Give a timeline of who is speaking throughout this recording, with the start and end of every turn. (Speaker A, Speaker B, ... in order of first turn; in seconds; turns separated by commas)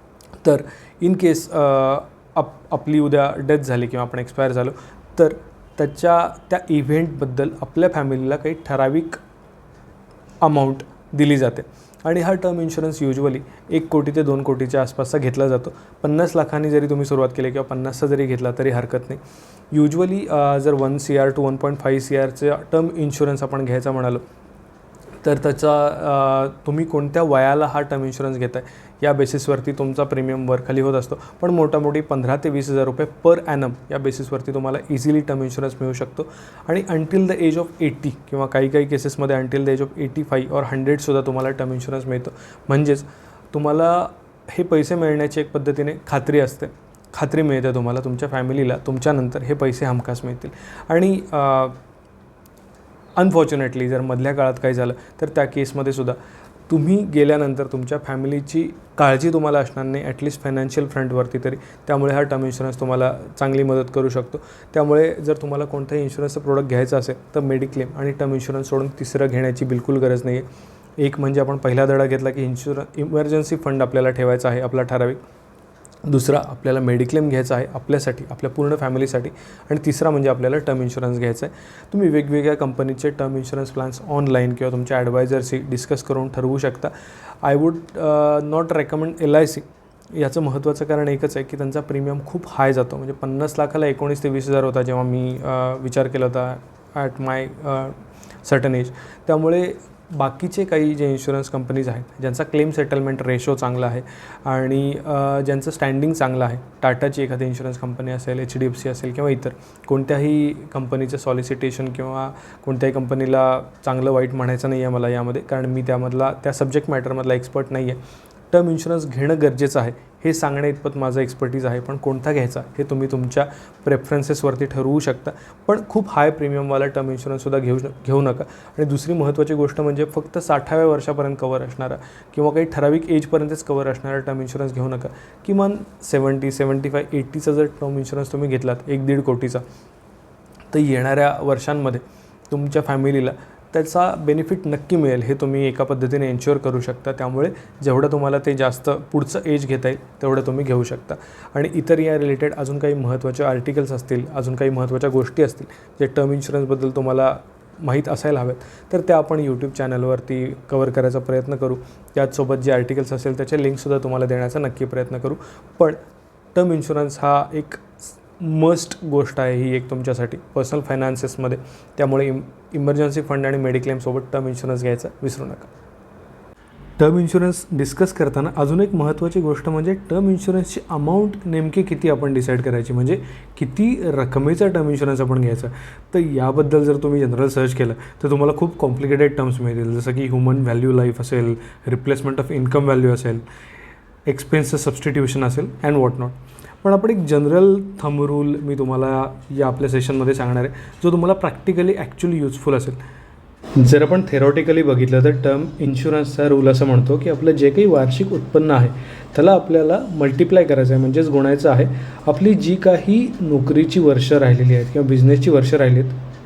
Speaker A: 0.4-9.2, Speaker A: 10.4-19.2, Speaker A: 19.7-24.2, Speaker A: 25.2-51.8, Speaker A: 53.1-56.2, Speaker A: 56.7-70.5, Speaker A: 71.0-75.2, Speaker A: 76.0-118.0, Speaker A: 118.5-139.6, Speaker A: 140.7-166.0, Speaker A: 166.5-175.7, Speaker A: 177.0-193.4, Speaker A: 194.2-203.0, Speaker A: 203.8-216.2